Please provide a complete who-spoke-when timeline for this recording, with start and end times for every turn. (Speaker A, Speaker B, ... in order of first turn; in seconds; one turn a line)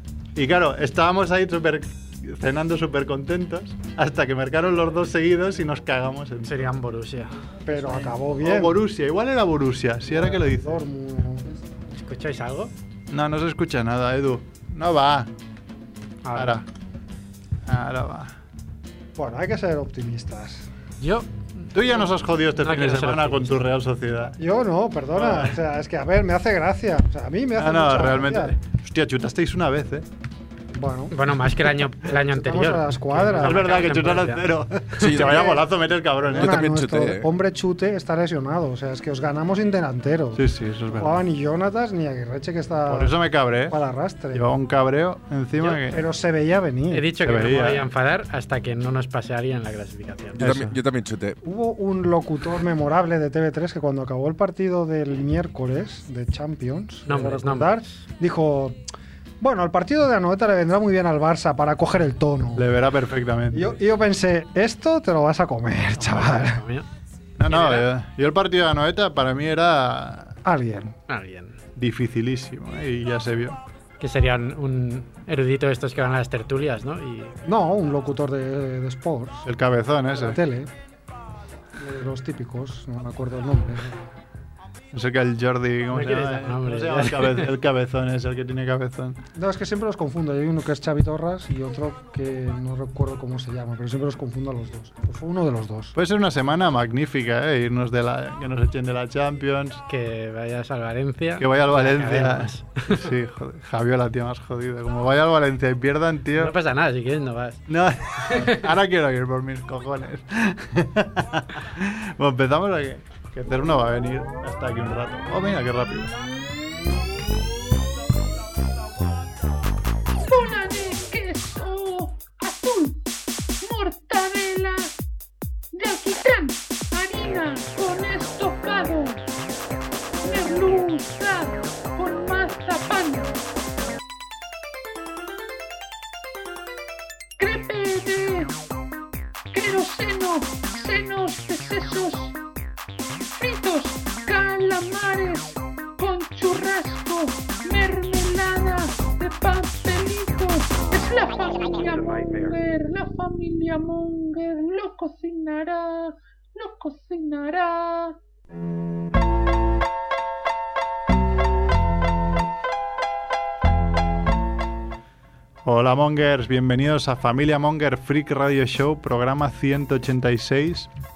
Speaker A: 0.3-6.7
Speaker B: 6.4-7.3
Speaker C: 7.7-8.8
Speaker A: 8.4-10.8
Speaker C: 10.1-11.5
Speaker B: 12.0-12.7
Speaker A: 13.1-15.3
Speaker B: 16.2-16.6
Speaker A: 16.4-16.6
Speaker A: 17.6-18.4
Speaker C: 19.2-20.7
Speaker B: 21.0-21.7
Speaker A: 21.7-24.4
Speaker B: 22.6-23.6
Speaker C: 24.4-28.5
Speaker A: 25.1-25.6
Speaker A: 27.6-30.1
Speaker C: 30.7-31.1
Speaker B: 31.1-34.5
Speaker C: 32.1-33.7
Speaker A: 33.4-36.6
Speaker D: 35.0-35.5
Speaker C: 35.3-35.6
Speaker C: 36.3-44.5
Speaker D: 36.4-37.3
Speaker A: 40.4-41.2
Speaker A: 42.9-43.8
Speaker A: 44.3-46.1
Speaker C: 45.8-47.1
Speaker B: 46.9-50.5
Speaker A: 47.2-47.9
Speaker D: 50.4-51.4
Speaker A: 50.4-50.8
Speaker C: 51.4-58.8
Speaker B: 57.1-57.9
Speaker C: 59.4-62.7
Speaker A: 62.5-63.7
Speaker C: 63.5-66.6
Speaker B: 66.1-66.9
Speaker A: 67.4-70.4
Speaker B: 67.5-67.9
Speaker C: 70.4-71.0
Speaker B: 71.1-71.5
Speaker A: 71.8-73.6
Speaker B: 74.0-77.3
Speaker C: 77.5-79.5
Speaker A: 79.5-80.4
Speaker C: 80.2-80.7
Speaker C: 81.8-84.0
Speaker A: 84.9-89.2
Speaker B: 85.9-87.5
Speaker C: 89.3-95.9
Speaker A: 96.0-99.8
Speaker B: 99.9-103.0
Speaker A: 101.4-106.5
Speaker B: 106.3-107.6
Speaker A: 107.7-116.1
Speaker B: 108.3-108.7
Speaker E: 120.2-123.0
Speaker E: 123.6-124.9
Speaker E: 125.7-129.2
Speaker E: 130.2-133.4
Speaker E: 137.4-138.5
Speaker E: 139.5-142.4
Speaker E: 143.4-158.2
Speaker A: 165.6-170.9